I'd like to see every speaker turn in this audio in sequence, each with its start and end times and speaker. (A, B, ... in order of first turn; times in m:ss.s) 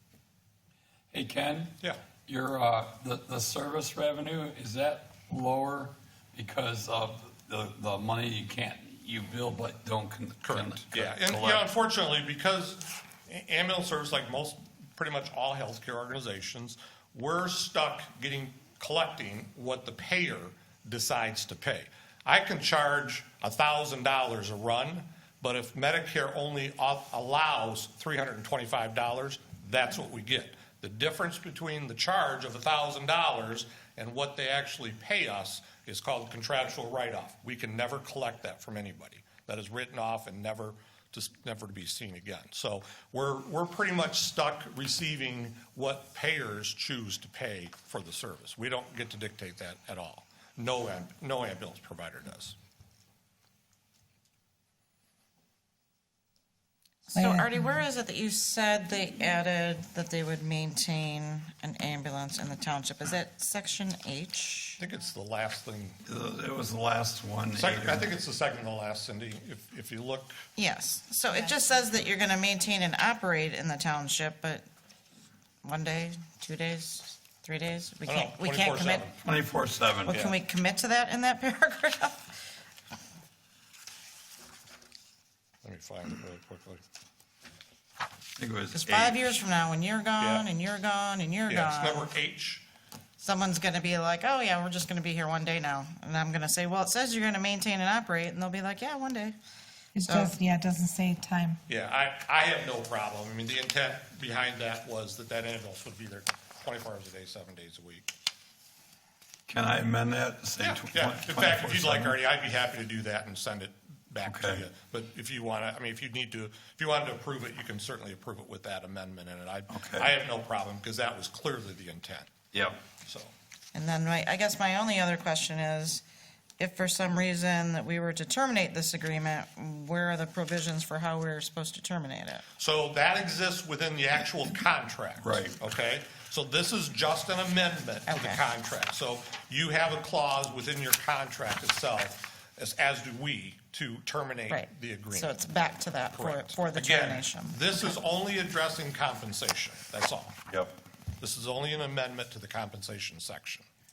0:01.1-0:01.7 A
0:02.2-0:11.6 A
0:10.4-0:52.6 B
0:57.1-1:04.8 C
0:57.1-0:57.7 D
1:04.8-1:06.0 B
1:06.0-1:08.1 A
1:07.5-1:10.4 B
1:10.6-1:14.6 C
1:15.6-1:19.1 C
1:18.0-1:19.1 B
1:19.2-1:20.2 A
1:20.0-1:22.3 C
1:25.6-1:26.8 B
1:28.4-1:29.4 A
1:28.7-1:32.1 C
1:30.2-1:30.4 B
1:31.5-1:32.6 B
1:33.2-1:39.4 C
1:39.9-1:41.6 D
1:40.0-1:40.3 C
1:41.7-1:48.1 B
1:49.5-1:52.2 A
1:50.6-2:02.3 B
1:54.2-1:54.6 A
1:59.7-2:00.1 A
2:02.5-2:02.8 A
2:03.0-2:03.3 B
2:03.7-2:06.0 C
2:06.6-2:12.4 C
2:12.6-2:25.4 B
2:15.2-2:15.6 A
2:18.1-2:18.4 C
2:24.5-2:27.9 C
2:26.1-2:30.4 B
2:31.2-2:33.6 B